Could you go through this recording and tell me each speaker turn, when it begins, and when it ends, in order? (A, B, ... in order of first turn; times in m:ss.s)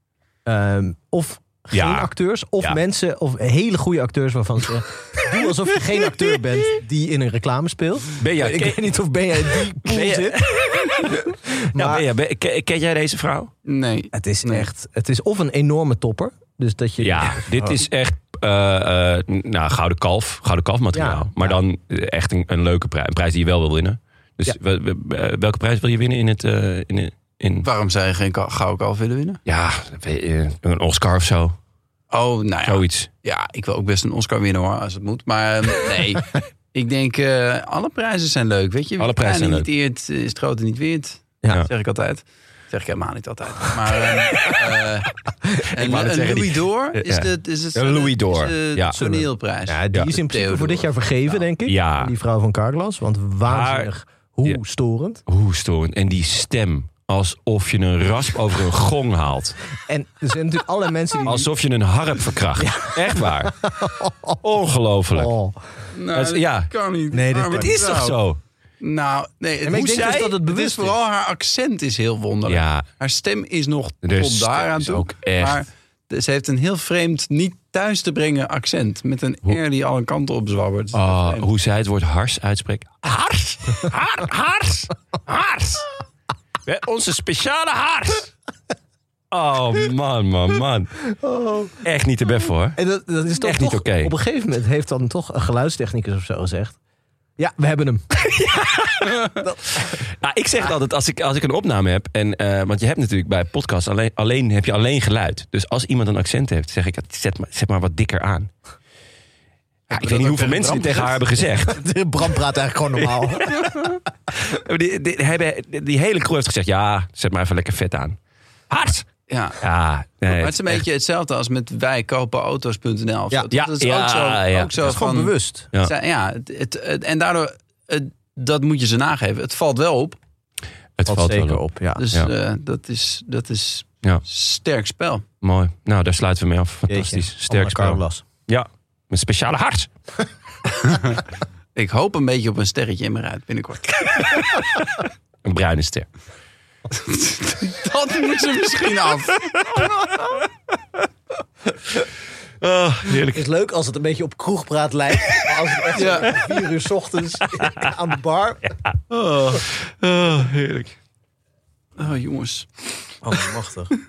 0:00.4-0:10.4 A
0:01.7-0:02.1 B
0:08.2-0:08.8 B
0:09.5-0:13.5 B
0:11.0-0:12.1 A
0:13.7-0:14.7 C
0:14.1-0:17.8 A
0:17.0-0:27.7 B
0:20.9-0:21.6 A
0:27.6-0:29.4 C
0:29.5-0:31.6 B
0:32.1-0:45.2 C
0:32.6-0:33.1 B
0:39.0-0:39.7 B
0:45.7-0:51.4 C
0:45.8-0:49.0 B
0:48.9-0:55.2 A
0:51.7-0:52.1 B
0:53.5-0:53.9 B
0:55.3-0:59.6 B
0:59.9-1:01.5 A
1:01.2-1:03.6 B
1:02.6-1:04.4 A
1:04.4-1:05.3 B
1:05.1-1:05.6 A
1:05.9-1:08.2 C
1:06.1-1:06.7 B
1:07.1-1:07.9 A
1:07.5-1:08.4 B
1:08.8-1:21.4 C
1:09.6-1:11.0 A
1:09.7-1:10.3 B
1:12.5-1:12.9 B
1:14.0-1:15.6 B
1:20.9-1:25.9 B
1:26.6-1:28.3 B
1:29.3-1:31.1 B
1:31.1-1:31.8 A
1:31.8-1:32.8 B
1:32.8-1:36.8 A
1:33.4-1:34.1 B
1:37.4-1:38.2 A
1:38.2-1:48.5 B
1:39.4-1:39.9 A
1:49.9-1:51.2 C
1:49.9-1:51.8 B
1:51.7-1:53.7 A
1:54.3-1:58.2 B
1:58.7-1:59.0 B
1:59.3-1:59.6 C
1:59.6-2:00.8 B
2:00.3-2:10.2 C
2:03.5-2:05.0 B
2:04.8-2:05.7 A
2:11.0-2:12.3 B
2:11.1-2:12.0 A
2:12.0-2:15.2 C
2:15.4-2:19.9 B
2:16.9-2:18.2 A
2:20.8-2:21.2 C
2:21.8-2:24.6 C
2:25.4-2:26.1 B
2:26.9-2:29.9 C
2:32.6-2:33.5 B
2:33.3-2:38.7 A
2:35.9-2:36.4 C
2:39.1-2:40.9 B
2:42.0-2:43.1 C
2:43.2-2:43.9 A